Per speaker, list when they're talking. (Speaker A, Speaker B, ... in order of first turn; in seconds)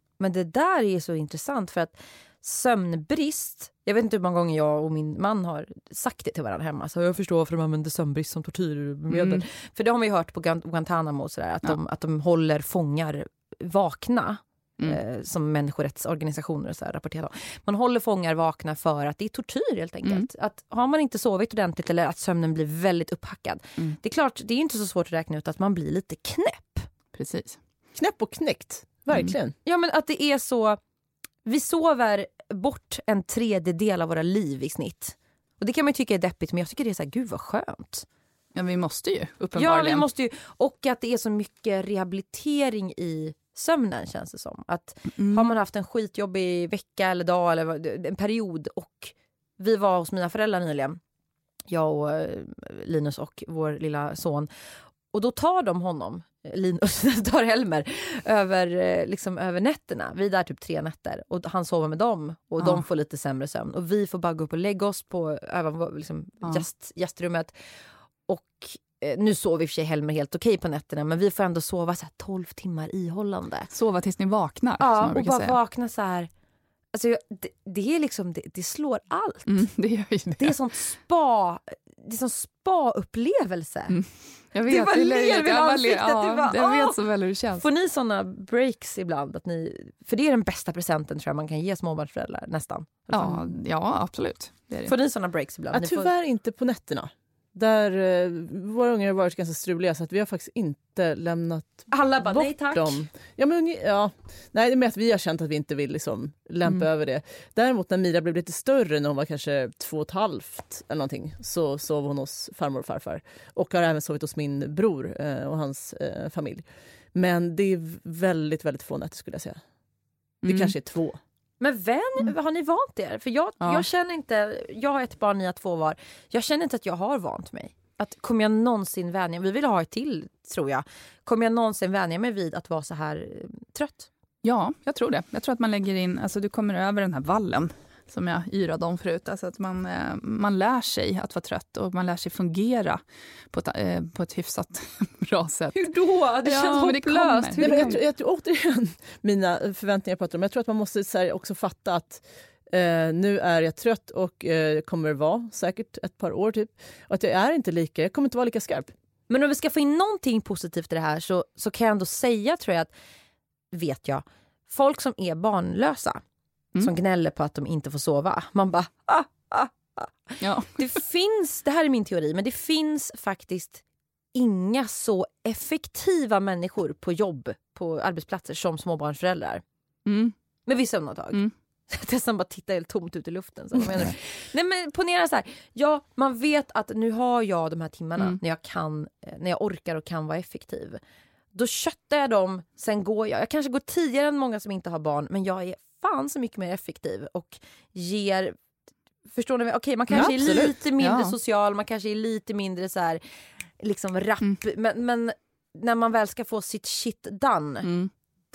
Speaker A: 0.2-26.9, 29.6-30.8, 31.4-38.0, 39.5-51.0, 51.7-54.5, 55.1-67.5, 68.3-73.7, 74.8-76.3, 76.9-79.7, 80.3-84.0, 84.6-87.0, 87.6-93.5, 94.8-96.1, 101.9-103.1, 121.6-134.1, 145.7-148.0, 159.3-162.9, 163.7-166.2, 166.8-173.8, 174.3-179.6, 180.7-191.0, 191.5-198.6, 199.3-203.2, 203.8-207.9
Speaker B: 9.1-9.4, 27.1-27.6, 38.5-40.0, 45.2-45.5, 62.6-62.8, 73.7-75.6, 79.5-80.5, 83.9-87.7, 93.1-94.9, 120.4-120.7, 123.6-123.8, 134.4-147.9, 170.4-170.8, 180.1-180.3, 200.1-201.3, 207.8-208.1
Speaker C: 27.9-29.5, 95.7-119.6, 120.4-121.2, 147.6-158.9, 200.2-200.7